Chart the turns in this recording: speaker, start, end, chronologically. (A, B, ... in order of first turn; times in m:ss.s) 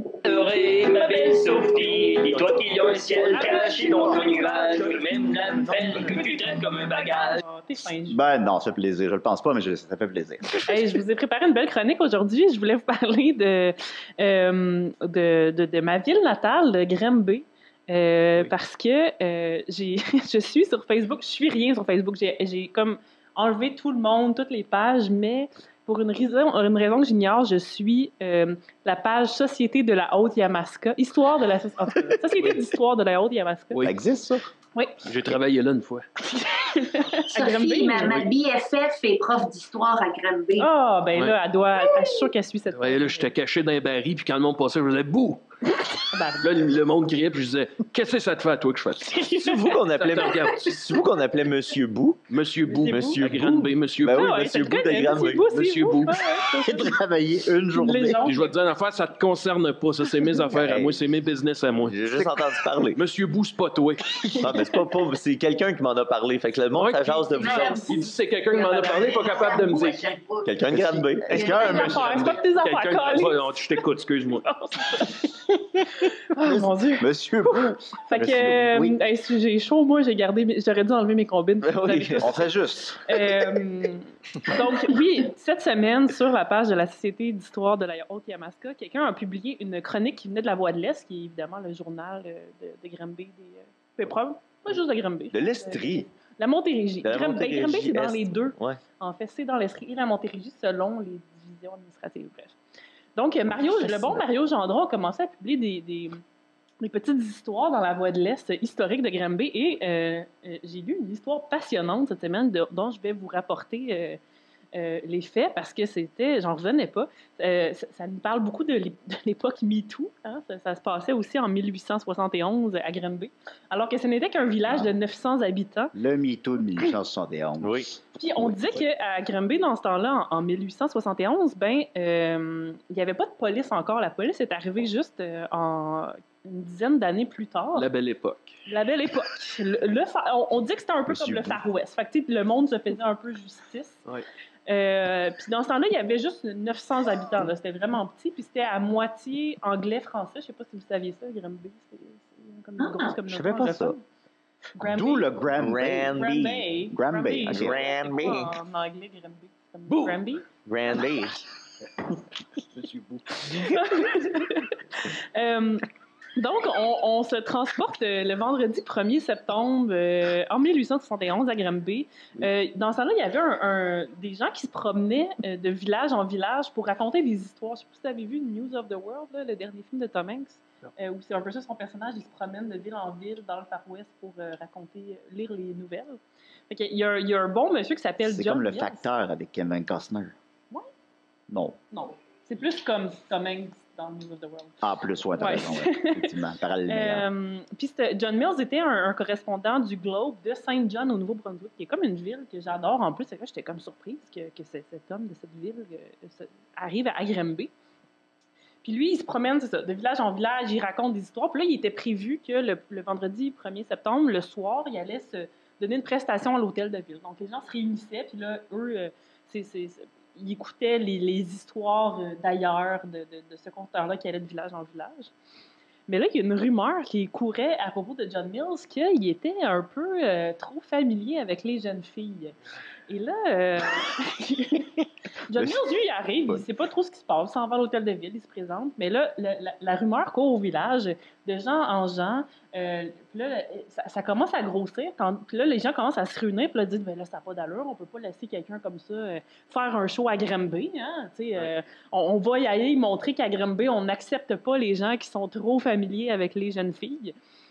0:00.2-0:07.4 A
0:03.3-0:05.0 B
0:05.8-0:08.2 B
0:08.1-0:10.6 C
0:10.7-0:33.8 B
0:33.7-0:34.0 D
0:33.8-0:34.4 C
0:34.8-0:35.0 B
0:35.0-0:36.0 D
0:36.3-0:38.3 B
0:37.3-0:40.7 E
0:40.6-0:43.3 B
0:42.7-0:45.4 D
0:46.1-0:46.5 B
0:46.4-0:49.2 D
0:49.1-0:49.8 B
0:49.4-0:52.3 F
0:50.0-0:50.8 D
0:52.3-0:54.4 D
0:52.7-0:53.2 B
0:52.8-0:55.5 F
0:54.1-0:57.0 B
0:55.5-0:56.2 D
0:56.6-0:58.2 C
0:57.7-0:58.5 B
0:58.2-1:02.0 D
1:00.5-1:00.9 C
1:00.6-1:00.9 F
1:01.9-1:03.0 F
1:02.9-1:04.1 D
1:04.4-1:07.9 F
1:06.8-1:10.2 D
1:07.4-1:12.1 E
1:07.4-1:08.0 B
1:10.4-1:11.6 F
1:10.7-1:12.4 C
1:11.5-1:13.6 B
1:12.5-1:14.4 D
1:14.3-1:15.4 B
1:16.3-1:22.3 B
1:16.4-1:19.0 C
1:21.6-1:22.4 F
1:22.2-1:23.2 C
1:23.1-1:42.6 B
1:35.3-1:36.1 F
1:37.0-1:38.8 F
1:43.2-1:46.2 B
1:43.9-1:44.2 C
1:46.8-1:54.2 B
1:54.7-2:05.9 B
2:05.9-2:07.8 C
2:07.6-2:08.0 F
2:08.2-2:17.9 B
2:17.8-2:18.5 D
2:18.7-2:24.0 B
2:21.1-2:21.6 C
2:24.7-2:34.0 B
2:32.8-2:33.2 E
2:33.3-2:34.0 C
2:34.8-2:35.3 B
2:34.8-2:36.2 C
2:35.6-2:36.7 F
2:36.2-2:40.4 B
2:36.9-2:37.8 C
2:37.5-2:38.6 F
2:39.9-2:40.2 D
2:40.6-2:41.4 F
2:42.7-2:43.5 D
2:43.5-2:45.8 B
2:46.4-3:06.2 B
3:06.7-3:09.1 B
3:08.2-3:10.3 C
3:11.5-3:11.8 C
3:11.9-3:14.8 B
3:14.8-3:17.3 C
3:15.4-3:16.3 B
3:16.9-3:27.7 B
3:28.8-3:45.3 B
3:46.1-3:52.6 B
3:53.1-4:17.3 B
3:55.5-3:55.8 C